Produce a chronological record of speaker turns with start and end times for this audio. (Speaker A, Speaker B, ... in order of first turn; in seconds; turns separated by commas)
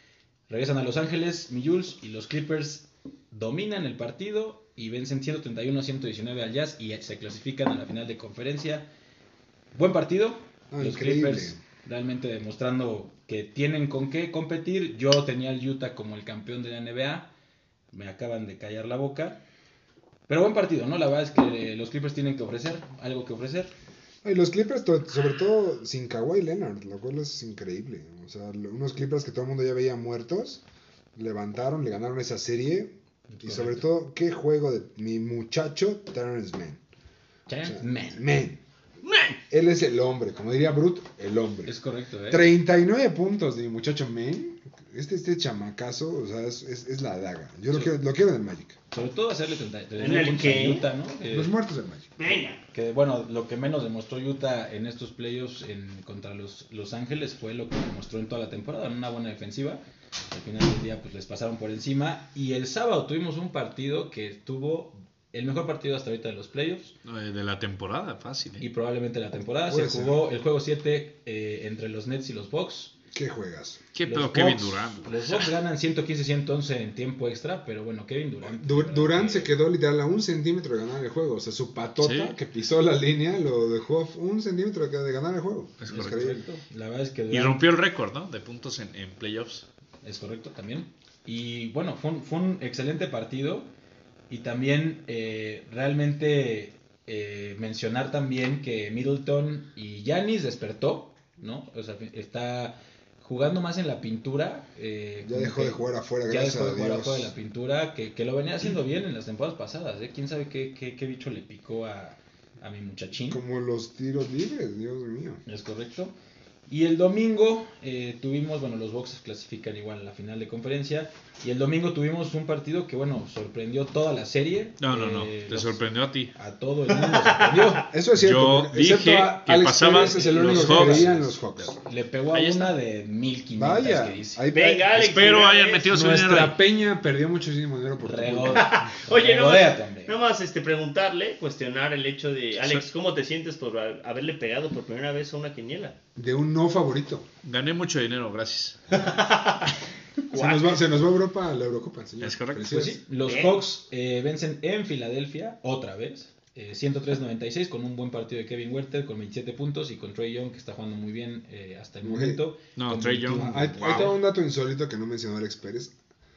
Speaker A: 0.5-8.9, Speaker A: 9.7-17.3, Speaker B: 10.7-11.6, Speaker A: 17.9-19.4, Speaker A: 20.3-23.7, Speaker B: 24.2-30.6, Speaker B: 31.1-36.8, Speaker A: 33.3-33.9, Speaker A: 37.5-38.4, Speaker B: 37.6-38.6, Speaker C: 39.0-39.4, Speaker B: 39.5-41.7, Speaker A: 41.6-42.5, Speaker B: 42.3-48.8, Speaker A: 48.9-51.5, Speaker C: 50.0-50.9, Speaker B: 51.3-52.3, Speaker C: 52.2-52.6, Speaker A: 52.7-67.0, Speaker D: 67.0-68.6, Speaker A: 68.6-72.9, Speaker B: 69.7-70.2, Speaker B: 73.1-73.8, Speaker D: 73.9-75.5, Speaker A: 74.0-79.5, Speaker B: 78.4-86.4, Speaker D: 82.0-82.3, Speaker D: 85.8-86.2, Speaker A: 85.9-87.6, Speaker D: 87.3-89.7, Speaker A: 90.0-93.7, Speaker A: 94.3-113.4, Speaker B: 105.2-107.3, Speaker B: 113.3-115.4, Speaker A: 115.5-116.1, Speaker A: 116.7-127.9, Speaker D: 124.8-126.3, Speaker C: 127.0-127.7, Speaker B: 127.7-131.8, Speaker D: 128.2-131.2, Speaker A: 129.9-134.4, Speaker D: 132.3-132.7, Speaker B: 133.5-134.9, Speaker C: 134.5-136.1, Speaker D: 134.9-136.6, Speaker B: 135.9-138.8, Speaker A: 138.0-140.1, Speaker C: 138.6-145.9, Speaker B: 146.2-147.2, Speaker D: 147.4-148.8, Speaker C: 148.9-150.8, Speaker B: 150.3-153.0, Speaker D: 152.2-152.7, Speaker A: 152.7-164.2, Speaker C: 153.2-153.6, Speaker B: 162.0-162.4, Speaker D: 162.8-164.1, Speaker B: 163.3-165.9